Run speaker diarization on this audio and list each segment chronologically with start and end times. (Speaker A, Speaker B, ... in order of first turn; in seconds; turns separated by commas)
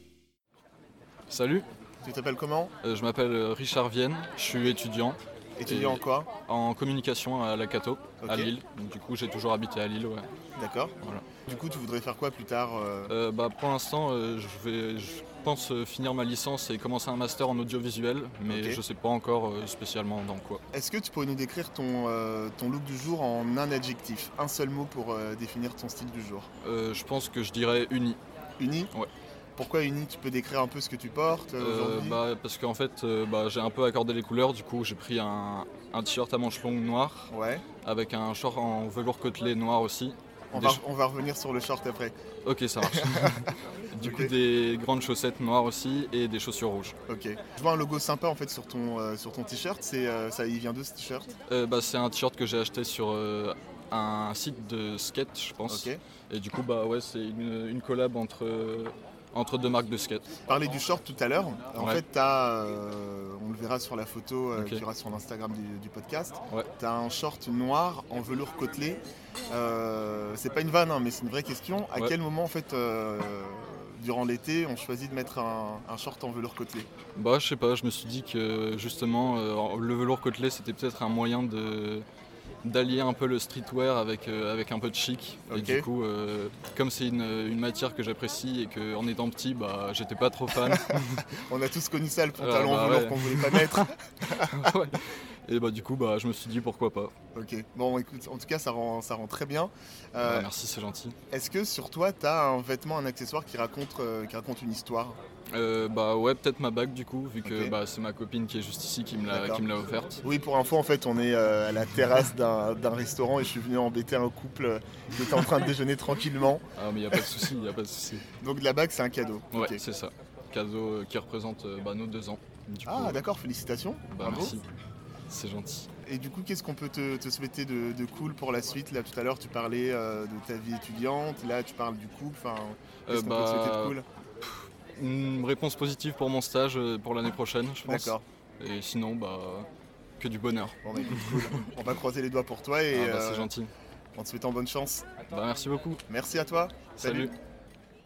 Speaker A: 1.3-1.7, Speaker B: 2.0-2.7, Speaker A: 2.8-10.3, Speaker B: 5.6-6.3, Speaker B: 8.2-8.5, Speaker B: 10.6-13.1, Speaker A: 11.0-11.3, Speaker A: 13.1-20.6, Speaker B: 18.5-18.8, Speaker B: 20.7-26.5, Speaker A: 26.6-28.2, Speaker B: 28.6-28.9, Speaker B: 29.6-32.2, Speaker A: 31.6-37.3, Speaker B: 37.3-37.6, Speaker A: 37.8-40.8, Speaker B: 40.5-42.1, Speaker A: 42.4-47.0, Speaker B: 42.8-43.5, Speaker B: 44.0-44.3, Speaker B: 47.1-51.3, Speaker A: 51.5-60.2, Speaker B: 55.7-56.0, Speaker B: 60.5-76.9, Speaker A: 61.8-62.0, Speaker A: 64.5-64.8, Speaker A: 77.1-82.0, Speaker A: 82.6-91.3, Speaker B: 85.5-85.9, Speaker B: 90.7-94.7, Speaker A: 92.3-97.1, Speaker B: 97.3-100.5, Speaker A: 100.2-101.1, Speaker B: 101.3-105.2, Speaker A: 105.5-110.2, Speaker B: 107.4-107.8, Speaker B: 109.3-109.6, Speaker B: 110.2-117.3, Speaker A: 116.8-118.2, Speaker B: 118.4-119.8, Speaker A: 119.5-123.2, Speaker B: 122.8-124.6, Speaker A: 124.1-124.6, Speaker A: 125.3-125.9, Speaker B: 126.0-134.1, Speaker A: 133.1-139.7, Speaker B: 137.8-138.2, Speaker A: 140.2-141.6, Speaker B: 140.8-143.5, Speaker A: 142.9-143.7, Speaker B: 144.2-145.1, Speaker A: 145.3-146.0, Speaker B: 146.1-147.3, Speaker A: 147.0-147.3